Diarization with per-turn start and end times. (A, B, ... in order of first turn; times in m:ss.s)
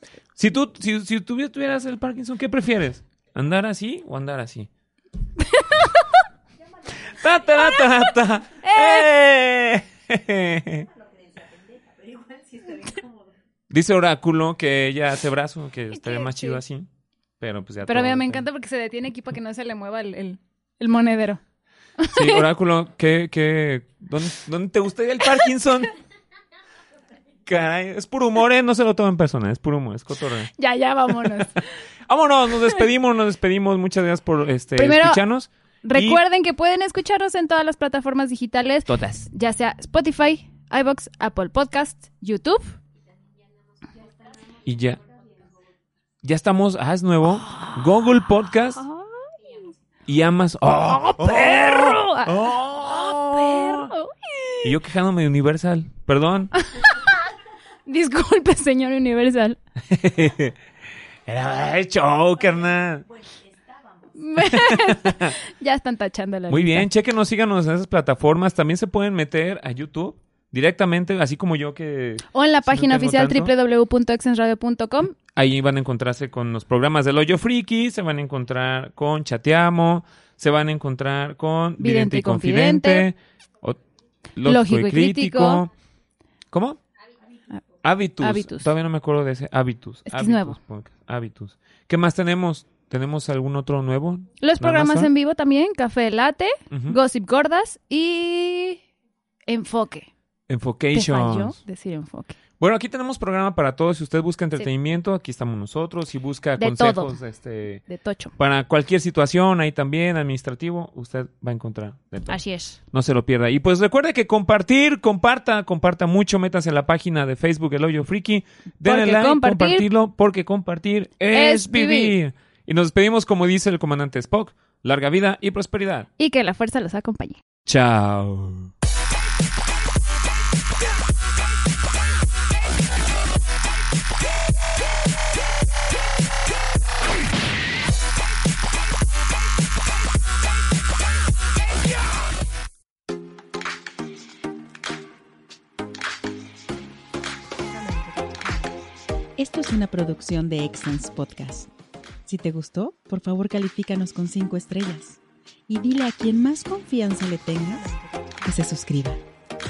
0:00.4-0:04.7 A
0:05.4-0:06.2 B
0:06.9-0:10.9 A
0:08.6-0:09.1 B
0:13.7-0:16.9 A
0:15.9-0:16.6 B
0:17.4-0:18.4 A
0:17.9-0:21.4 B
0:22.0-0:22.5 B
0:22.1-0:25.9 A
0:27.4-0:30.5 A
0:30.6-0:31.8 B
0:32.1-0:36.2 A
0:34.8-0:35.2 B
0:35.8-0:42.8 B
0:38.9-0:39.3 A
0:44.6-0:45.0 A
0:46.2-0:48.8 A
0:48.8-0:49.7 B
0:50.1-0:53.9 A
0:50.8-0:54.8 B
0:54.6-0:56.5 A
0:56.6-0:57.2 B
0:57.9-0:59.6 B
0:59.8-1:00.6 A
1:01.3-1:03.1 A
1:04.1-1:06.9 B
1:04.4-1:05.4 A
1:06.5-1:13.5 A
1:12.3-1:15.2 B
1:15.2-1:23.8 A
1:21.8-1:23.1 B
1:24.4-1:25.7 A
1:24.4-1:25.6 B
1:26.5-1:26.8 A
1:27.8-1:35.1 A
1:28.2-1:28.7 B
1:30.1-1:30.6 B
1:34.4-1:38.8 B
1:36.7-1:37.0 A
1:39.5-1:40.1 B
1:40.5-1:41.6 A
1:40.9-1:42.4 B
1:42.6-1:47.8 A
1:46.6-1:47.2 B
1:47.9-1:48.3 B
1:48.4-1:52.4 A
1:52.3-1:52.8 B
1:52.9-2:06.1 A
1:58.8-1:59.9 B
2:01.3-2:02.2 B
2:06.2-2:07.4 B
2:07.7-2:08.7 A
2:29.4-2:31.7 C
2:32.3-2:39.2 C